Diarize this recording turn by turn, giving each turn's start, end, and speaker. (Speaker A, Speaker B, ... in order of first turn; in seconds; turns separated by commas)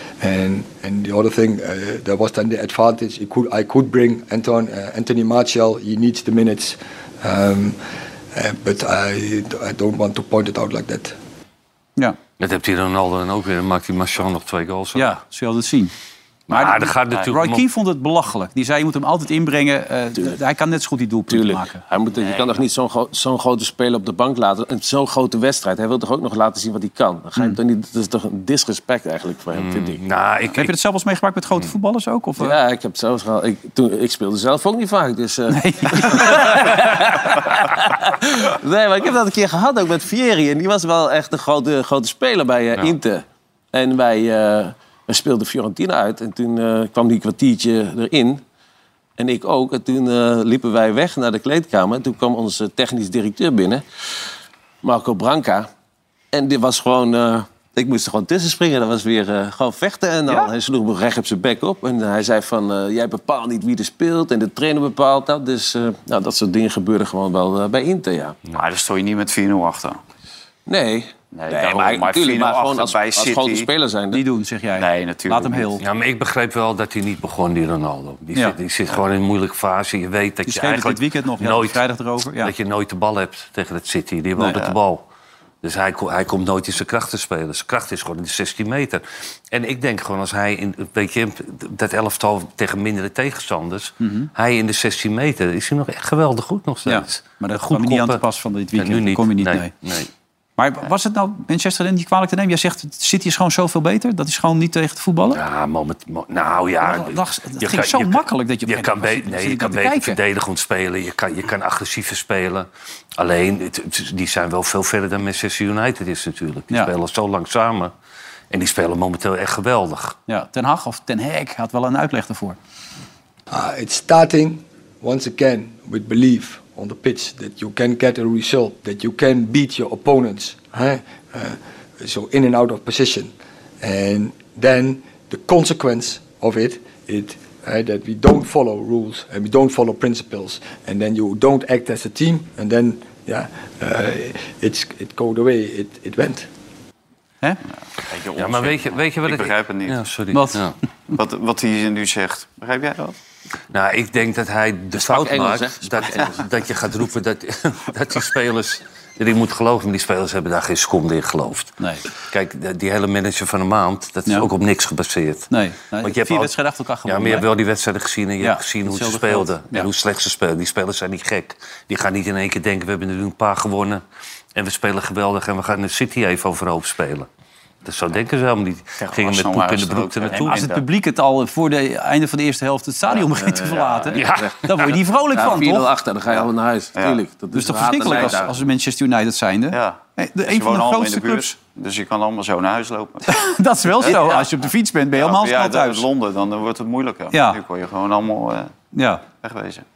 Speaker A: 0.2-7.8, Speaker A: 8.3-11.2, Speaker B: 12.4-15.2, Speaker C: 14.9-15.9, Speaker B: 16.5-17.6, Speaker C: 16.5-21.8, Speaker D: 21.3-30.0, Speaker B: 29.6-30.7, Speaker C: 30.6-32.6, Speaker D: 32.4-48.4, Speaker C: 35.5-36.7, Speaker D: 49.2-53.8, Speaker D: 54.8-55.7, Speaker D: 56.3-68.4, Speaker E: 68.5-70.0, Speaker D: 70.7-74.2, Speaker E: 71.3-73.7, Speaker C: 74.1-75.8, Speaker E: 74.8-75.8, Speaker B: 75.8-81.8, Speaker C: 80.5-82.5, Speaker B: 82.4-85.1, Speaker B: 85.6-98.2, Speaker C: 94.0-94.3, Speaker C: 96.9-99.7, Speaker B: 98.7-100.1, Speaker C: 100.6-105.4, Speaker B: 105.3-117.9, Speaker C: 106.8-110.2, Speaker B: 118.5-120.2, Speaker C: 120.3-122.6, Speaker A: 123.5-146.5, Speaker E: 148.0-150.0, Speaker B: 148.3-150.8, Speaker C: 150.3-150.6, Speaker E: 151.1-153.1, Speaker B: 153.7-166.5, Speaker D: 155.0-156.4, Speaker C: 161.8-162.1, Speaker C: 165.5-167.5, Speaker B: 167.1-174.0, Speaker C: 168.4-169.9, Speaker B: 174.6-177.3, Speaker B: 177.8-180.7, Speaker E: 179.0-180.8, Speaker C: 180.4-185.9, Speaker D: 183.2-184.6, Speaker B: 184.1-184.6, Speaker D: 185.3-188.6, Speaker E: 186.3-187.2, Speaker C: 187.5-191.6, Speaker E: 188.1-188.3, Speaker E: 189.7-194.5, Speaker C: 193.3-196.1, Speaker E: 195.2-198.7, Speaker C: 197.3-197.6, Speaker C: 198.9-199.2, Speaker E: 199.4-199.8